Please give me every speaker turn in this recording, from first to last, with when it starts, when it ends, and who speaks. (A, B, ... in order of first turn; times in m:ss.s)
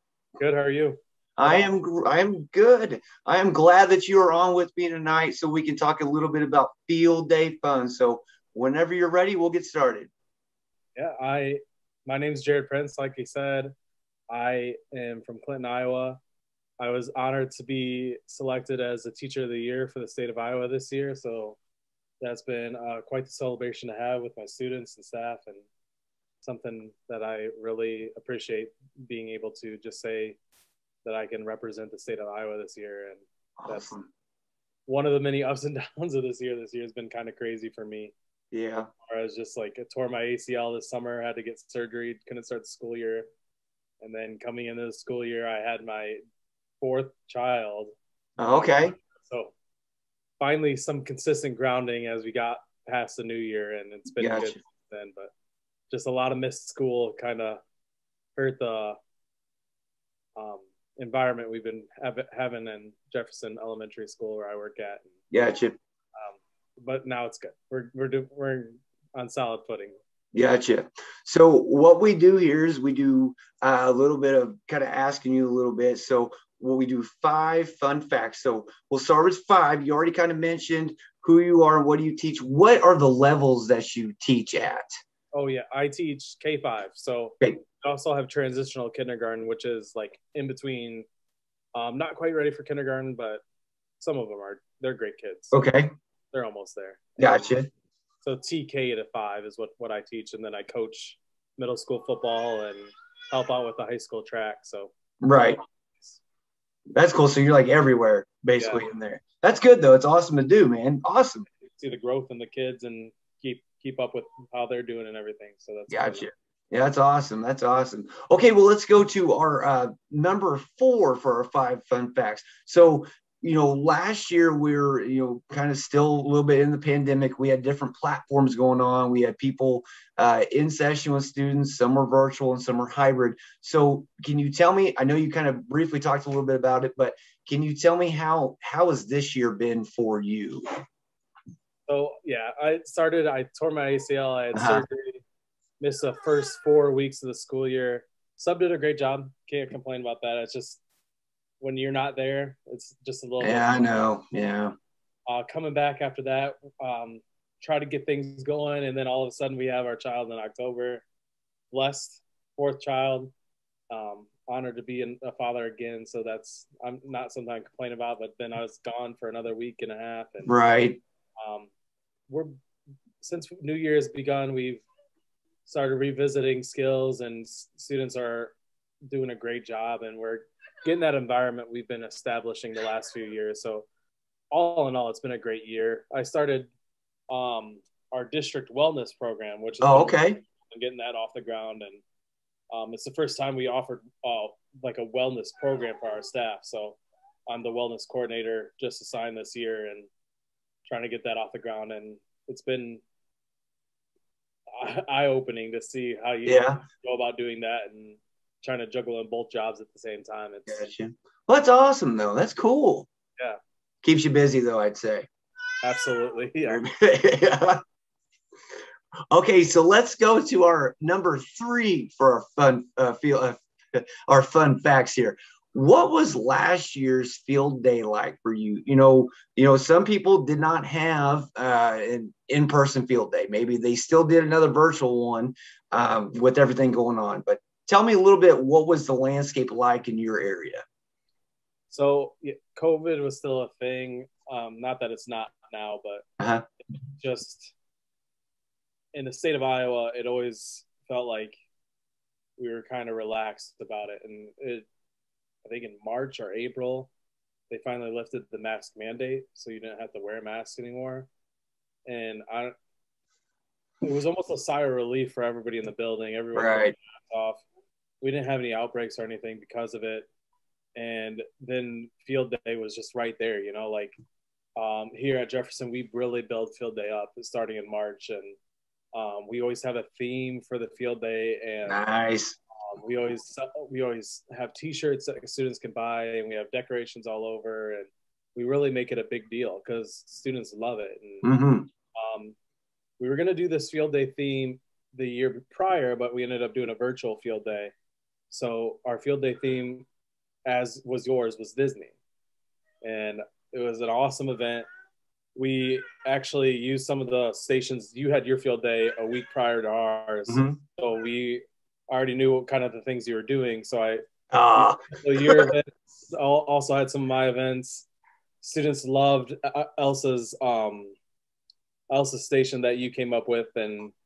0:00.4-0:01.7 A
0:01.4-0:10.1 B
0:11.0-0:13.7 A
0:14.3-0:16.2 A
0:16.8-0:21.6 A
0:22.2-0:25.6 A
0:26.4-0:30.4 A
0:31.0-0:33.9 A
0:33.6-0:34.1 B
0:34.9-0:38.1 A
0:38.5-0:38.9 B
0:39.0-0:43.3 A
0:44.0-0:46.2 A
0:46.8-0:47.9 A
0:48.4-0:49.0 B
0:48.5-0:49.5 A
0:50.4-0:55.3 A
0:54.2-0:54.6 B
0:55.9-0:57.6 A
0:58.4-0:59.0 A
1:00.4-1:05.1 A
1:05.3-1:05.8 B
1:06.2-1:09.9 A
1:10.3-1:24.9 B
1:25.3-1:31.0 A
1:31.7-1:33.4 A
1:34.0-1:35.7 A
1:35.5-1:35.9 B
1:36.3-1:37.5 A
1:37.2-1:37.7 B
1:38.2-1:44.9 A
1:45.2-1:45.6 B
1:45.9-1:46.2 A
1:46.9-1:51.4 B
1:48.6-1:48.8 A
1:51.6-1:56.3 A
1:55.9-2:20.6 B
2:21.9-2:25.2 A
2:24.5-2:24.8 B
2:25.8-2:30.8 A
2:31.6-2:33.9 A
2:33.4-2:34.7 B
2:35.3-2:41.0 A
2:41.7-2:43.3 A
2:43.9-2:50.5 A
2:50.4-2:51.0 B
2:51.4-2:51.7 A
2:53.2-2:54.8 A
2:55.6-2:58.6 A
2:59.1-3:03.9 A
3:04.5-3:06.7 A
3:07.3-3:12.0 A
3:09.8-3:10.4 B
3:12.7-3:20.1 A
3:20.8-3:23.0 A
3:24.8-3:30.8 A
3:26.4-3:26.8 B
3:30.7-3:33.1 B
3:34.0-3:35.3 B
3:35.8-3:36.8 A
3:36.7-3:37.8 B
3:39.3-4:00.8 B
4:01.9-4:06.2 A
4:07.2-4:07.7 A
4:09.1-4:11.6 A
4:12.6-4:14.8 A
4:15.6-4:17.1 A
4:17.7-4:21.3 A
4:22.1-4:22.7 A
4:24.0-4:27.6 A
4:26.5-4:26.9 B
4:28.2-4:30.3 A
4:31.0-4:34.2 A
4:34.8-4:38.6 A
4:39.1-4:42.0 A
4:41.9-4:42.6 B
4:42.8-4:51.5 A
4:51.4-4:51.9 B
4:52.2-4:52.6 A
4:53.2-4:57.9 A
4:58.5-5:00.0 A
5:00.6-5:02.1 A
5:03.0-5:04.8 A
5:05.5-5:14.2 A
5:10.5-5:10.8 B
5:14.5-5:15.7 B
5:14.7-5:18.0 A
5:18.6-5:21.2 A
5:22.1-5:24.1 A